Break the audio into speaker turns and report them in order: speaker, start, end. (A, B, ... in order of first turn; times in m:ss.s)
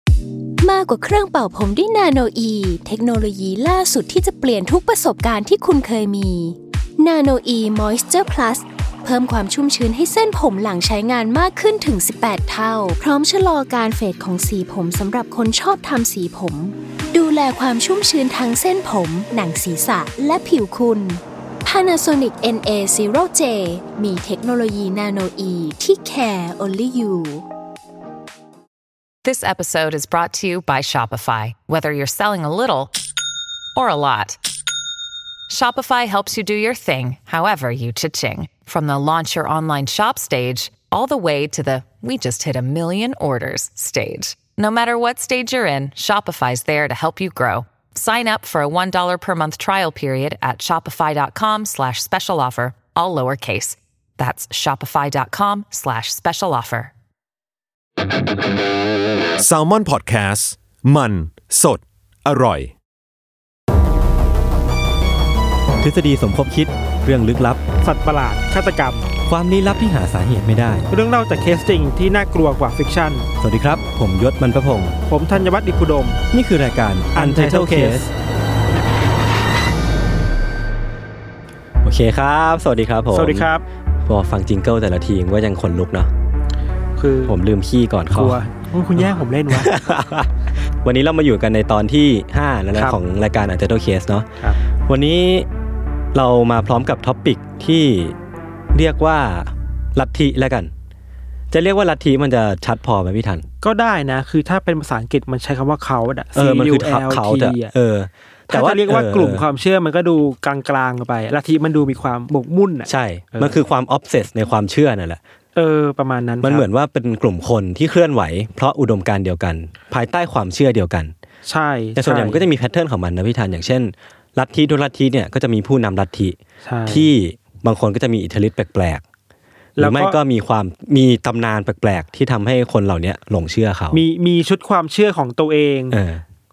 0:00.6-0:27.4 A
0:29.2-0:32.9 B
0:33.8-0:34.4 B
0:35.5-0:56.9 B
0:59.4-1:02.7 C
1:05.8-1:07.6 D
1:07.8-1:09.1 E
1:09.3-1:10.9 D
1:10.9-1:13.3 E
1:13.4-1:15.0 D
1:15.1-1:16.2 E
1:16.3-1:18.1 D
1:17.2-1:18.1 E
1:21.8-1:23.5 D
1:23.1-1:23.6 E
1:24.0-1:26.1 D
1:27.0-1:27.4 E
1:27.3-1:28.4 D
1:28.1-1:29.8 E
1:29.0-1:35.5 D
1:36.1-1:38.2 D
1:38.7-1:40.7 D
1:41.5-1:43.5 D
1:43.6-1:47.7 E
1:46.4-1:49.4 D
1:48.5-1:53.6 E
1:52.9-1:55.2 D
1:55.6-1:56.7 E
1:56.4-2:01.1 D
2:01.5-2:02.4 E
2:02.0-2:06.4 D
2:06.6-2:07.1 E
2:06.9-2:09.0 D
2:09.8-2:10.2 E
2:09.8-2:14.0 D
2:13.9-2:16.0 E
2:15.9-2:16.2 D